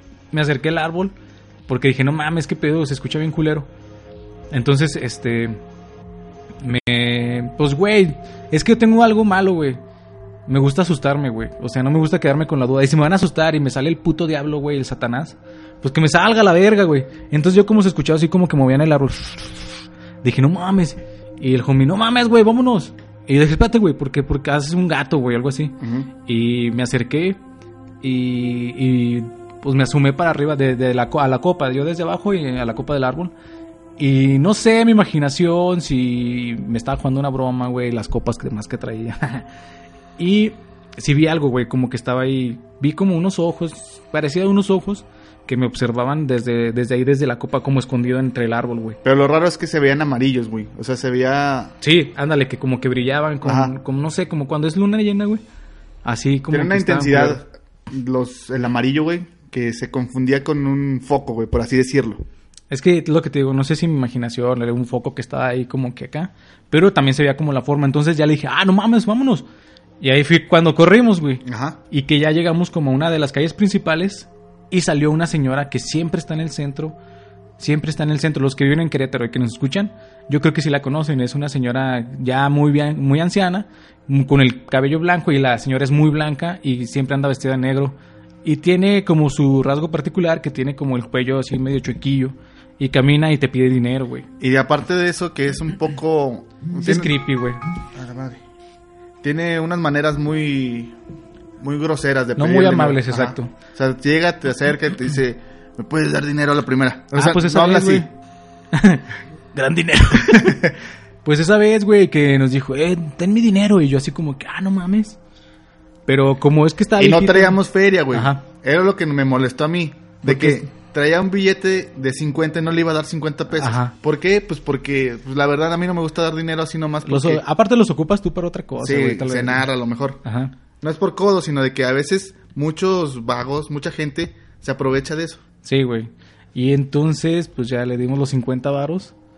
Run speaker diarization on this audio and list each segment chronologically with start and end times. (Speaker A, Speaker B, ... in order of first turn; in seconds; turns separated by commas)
Speaker A: 0.3-1.1, Speaker A: 1.7-3.7, Speaker A: 4.5-5.6, Speaker A: 6.6-9.8, Speaker A: 10.5-27.4, Speaker B: 25.8-26.1, Speaker A: 28.0-33.3, Speaker A: 34.0-39.5, Speaker A: 40.2-49.0, Speaker B: 49.0-51.7, Speaker A: 51.8-55.4, Speaker B: 53.4-53.7, Speaker A: 56.0-57.4, Speaker B: 56.5-62.2, Speaker A: 62.7-69.5, Speaker A: 70.0-77.0, Speaker B: 71.5-71.8, Speaker A: 77.6-94.3, Speaker B: 94.4-97.2, Speaker A: 96.8-97.6, Speaker B: 97.9-98.4, Speaker B: 99.2-101.0, Speaker B: 101.6-108.1, Speaker A: 102.4-103.5, Speaker A: 107.1-108.1, Speaker A: 108.7-115.2, Speaker B: 110.2-110.7, Speaker A: 116.1-117.6, Speaker B: 117.0-127.4, Speaker A: 118.1-118.4, Speaker A: 120.2-120.7, Speaker A: 123.6-123.9, Speaker A: 127.0-129.7, Speaker B: 128.8-130.2, Speaker A: 130.2-130.5, Speaker B: 130.8-135.4, Speaker A: 135.6-139.1